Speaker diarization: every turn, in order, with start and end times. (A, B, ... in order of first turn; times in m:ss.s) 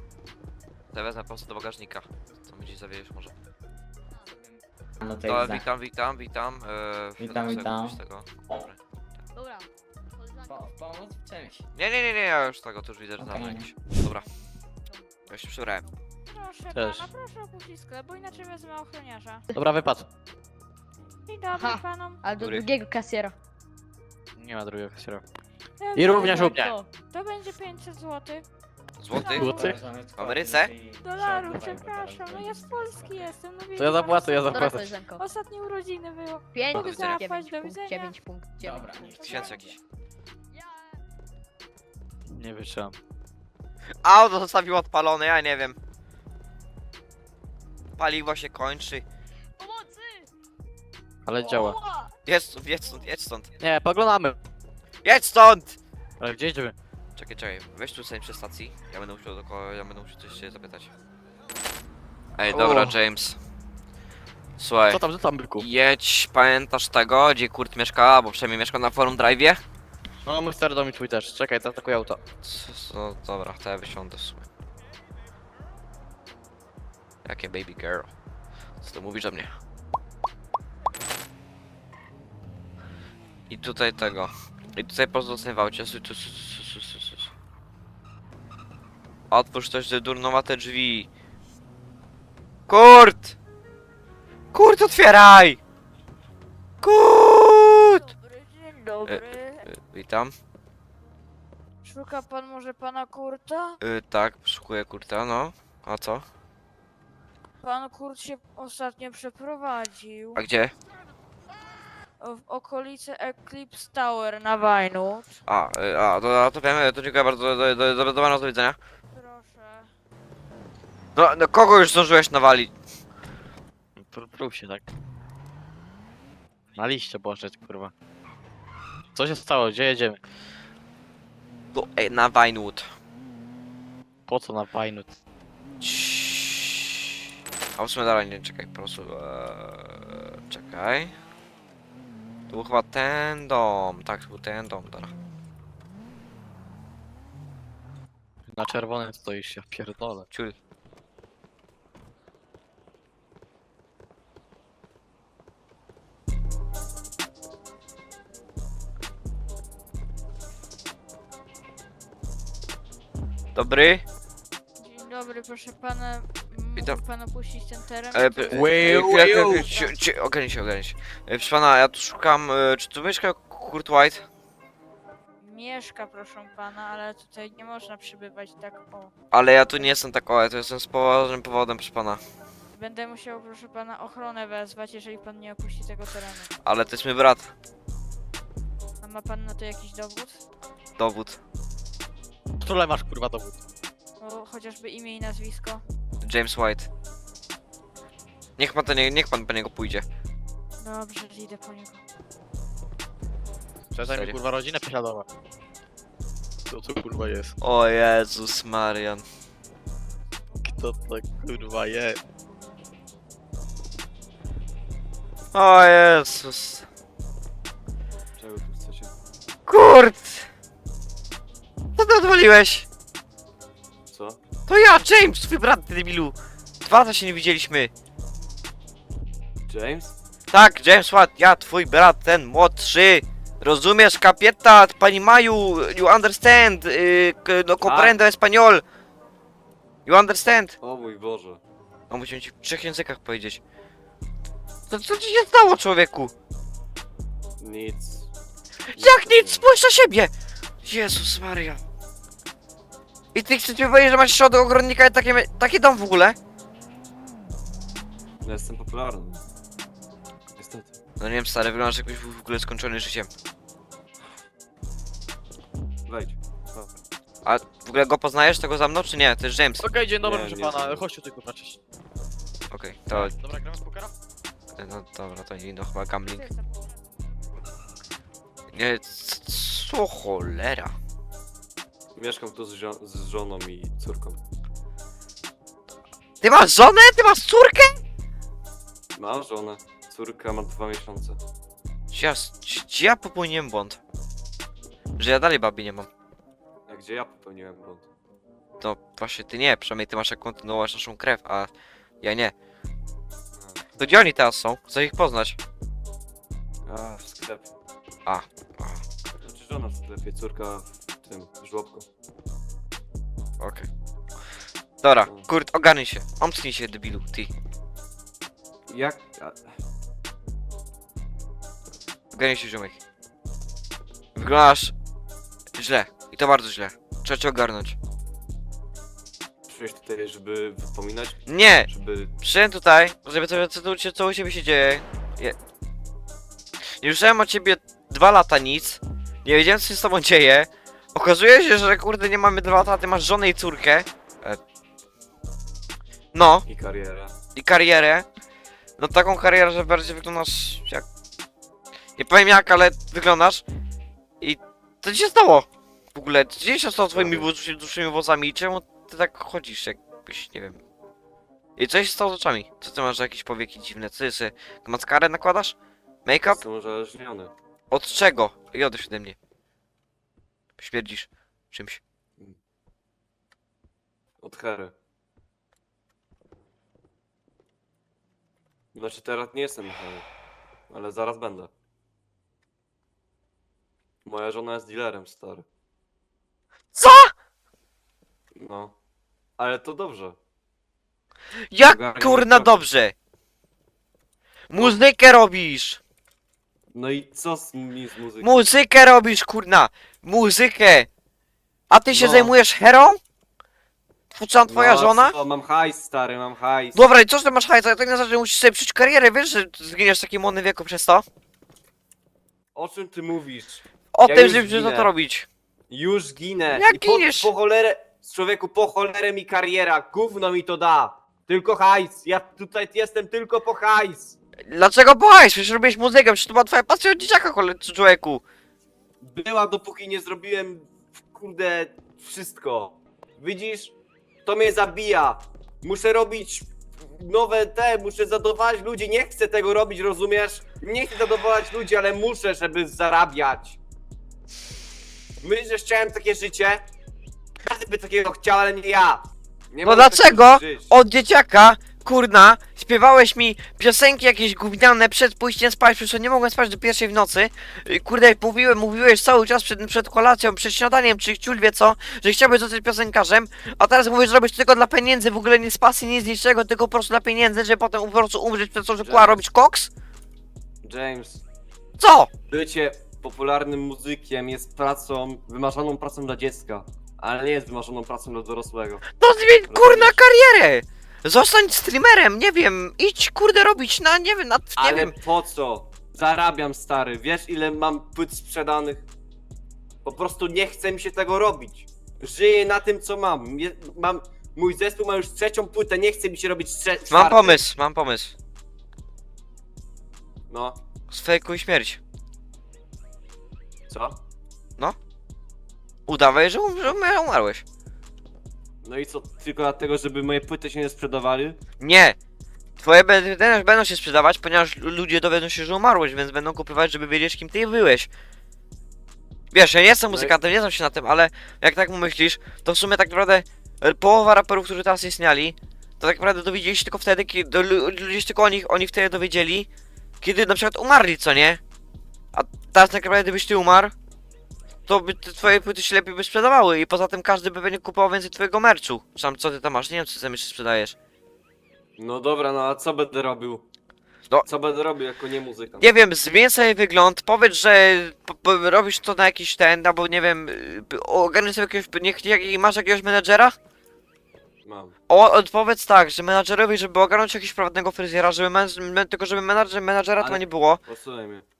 0:00.9-0:03.3 A
0:04.2-0:05.7 B
0:05.3-0:09.2 A
0:07.2-0:08.7 B
0:09.3-0:10.7 C
0:10.5-0:11.6 B
0:11.7-0:14.2 A
0:13.2-0:13.7 B
0:14.8-0:15.9 C
0:15.3-0:15.8 A
0:16.3-0:19.4 D
0:16.7-0:17.1 E
0:19.5-0:20.1 E
0:21.3-0:22.2 D
0:21.5-0:23.4 C
0:22.4-0:22.7 A
0:24.4-0:25.2 E
0:25.8-0:26.6 D
0:26.0-0:26.7 E
0:26.0-0:26.9 C
0:27.1-0:28.4 D
0:29.0-0:29.5 A
0:29.1-0:29.7 D
0:29.2-0:29.8 E
0:29.4-0:33.3 B
0:30.2-0:30.7 A
0:31.0-0:38.2 D
0:33.8-0:34.9 E
0:34.5-0:35.2 C
0:36.5-0:39.4 C
0:36.7-0:37.1 A
0:38.6-0:39.8 B
0:38.9-0:39.6 D
0:39.2-0:39.8 A
0:40.5-0:41.0 C
0:42.3-0:42.9 E
0:44.0-0:45.8 A
0:48.0-0:49.0 A
0:49.6-0:50.3 C
0:51.2-0:51.8 E
0:51.4-0:52.1 C
0:52.2-0:53.5 A
0:53.6-0:54.4 E
0:55.0-0:55.8 A
0:56.2-0:56.7 E
0:57.1-1:00.9 A
1:02.3-1:03.4 A
1:02.5-1:03.0 E
1:04.6-1:05.0 A
1:04.9-1:05.7 E
1:05.6-1:09.6 A
1:10.2-1:12.2 E
1:12.4-1:14.5 A
1:17.2-1:18.1 A
1:18.8-1:19.6 A
1:23.5-1:27.3 A
1:29.3-1:31.1 A
1:32.7-1:33.4 A
1:34.5-1:35.6 A
1:36.8-1:37.0 D
1:36.8-1:38.1 A
1:37.8-1:39.7 D
1:39.0-1:40.3 A
1:41.8-1:43.8 D
1:43.8-1:46.2 A
1:47.6-1:50.4 D
1:50.4-1:50.7 A
1:52.2-1:55.4 D
1:55.5-1:58.8 A
1:59.1-1:59.9 D
2:01.2-2:02.7 A
2:04.0-2:04.9 E
2:06.8-2:07.9 E
2:09.1-2:10.2 E
2:11.7-2:12.9 A
2:14.3-2:15.1 E
2:15.8-2:17.1 A
2:17.8-2:21.1 A
2:22.5-2:25.1 A
2:28.5-2:30.3 E
2:43.5-2:44.0 A
2:44.8-2:48.7 D
2:48.1-2:54.2 A
2:48.5-2:49.7 E
2:49.5-2:50.0 D
2:55.4-2:59.1 D
2:59.3-3:02.2 A
3:02.7-3:06.5 D
3:06.6-3:07.5 A
3:09.0-3:10.4 D
3:11.0-3:11.4 A
3:12.6-3:13.6 E
3:14.2-3:15.8 D
3:16.2-3:16.9 A
3:18.6-3:20.0 A
3:20.8-3:22.0 D
3:23.9-3:25.3 E
3:24.0-3:24.4 A
3:26.7-3:27.6 E
3:27.6-3:29.2 A
3:30.6-3:32.2 E
3:35.5-3:36.8 A
3:38.4-3:39.1 F
3:39.7-3:40.5 A
3:42.0-3:42.8 A
3:44.1-3:44.4 F
3:44.7-3:47.9 A
3:49.7-3:50.1 F
3:50.5-3:58.8 A
3:57.8-3:58.2 F
4:00.0-4:00.8 A
4:00.8-4:01.6 F
4:02.1-4:03.6 A
4:04.9-4:06.3 A
4:07.6-4:08.3 F
4:08.9-4:09.6 F
4:08.9-4:10.3 A
4:10.8-4:11.8 A
4:13.3-4:16.4 A
4:18.4-4:19.4 F
4:20.5-4:20.9 F
4:21.2-4:23.3 A
4:26.1-4:26.8 F
4:27.4-4:29.8 A
4:29.8-4:31.8 E
4:30.2-4:31.0 F
4:32.7-4:33.3 A
4:33.1-4:34.1 E
4:34.7-4:36.5 A
4:36.3-4:37.1 D
4:38.7-4:40.9 A
4:42.2-4:44.4 F
4:46.4-4:48.0 A
4:49.1-4:51.4 F
4:52.1-4:54.0 A
4:55.2-4:56.1 A
4:56.9-4:58.0 F
4:58.8-5:01.7 A
5:02.2-5:02.5 A
5:03.5-5:03.8 F
5:04.0-5:05.6 A
5:06.8-5:07.7 F
5:08.2-5:09.0 A
5:09.4-5:12.0 F
5:13.6-5:13.9 A
5:15.0-5:17.5 A
5:18.9-5:19.7 F
5:22.3-5:23.0 A
5:24.3-5:24.9 A
5:25.8-5:28.0 A
5:29.7-5:32.3 F
5:31.4-5:35.6 A
5:37.0-5:44.6 A
5:46.3-5:46.7 A
5:46.6-5:47.3 F
5:47.5-5:48.2 A
5:49.0-5:51.0 A
5:52.2-5:53.6 A
5:54.4-6:00.8 A
5:57.1-5:57.5 F
6:01.8-6:06.6 A
6:06.4-6:07.5 F
6:07.9-6:09.4 A
6:10.8-6:12.0 A
6:14.4-6:14.9 F
6:18.9-6:20.2 F
6:20.9-6:21.7 F
6:24.2-6:25.6 F
6:26.9-6:27.3 A
6:28.5-6:28.9 F
6:29.6-6:30.4 F
6:31.7-6:33.1 A
6:31.8-6:32.8 F
6:34.7-6:36.0 A
6:34.7-6:35.0 F
6:36.9-6:38.6 F
6:38.4-6:41.1 A
6:41.9-6:43.2 A
6:42.1-6:42.5 F
6:44.3-6:45.4 A
6:44.7-6:47.0 F
6:46.9-6:51.2 A
6:52.7-6:55.1 F
6:54.1-6:55.5 A
6:55.9-7:04.4 F
6:56.7-6:57.5 A
7:04.7-7:08.4 A
7:09.2-7:13.9 F
7:14.4-7:23.8 F
7:25.4-7:26.8 F
7:27.6-7:30.9 F
7:29.8-7:49.9 A
7:49.0-7:49.4 F
7:50.8-7:51.4 F
7:52.0-7:52.3 A
7:52.5-7:59.0 F
7:59.1-8:05.1 A
7:59.7-8:00.2 F
8:04.8-8:09.1 F
8:10.0-8:17.6 F
8:17.1-8:18.3 A
8:20.5-8:20.8 F
8:21.1-8:22.0 A
8:23.9-8:24.2 F
8:26.1-8:27.6 A
8:28.8-8:31.6 F
8:31.8-8:32.2 A
8:32.8-8:38.1 A
8:39.5-8:49.7 A
8:40.1-8:40.4 F
8:50.2-8:51.6 A
8:52.3-8:53.9 A
8:54.9-9:00.9 A
9:02.0-9:03.6 F
9:04.5-9:05.9 F
9:05.8-9:13.6 A
9:14.6-9:15.0 F
9:15.1-9:20.8 A
9:20.2-9:21.4 F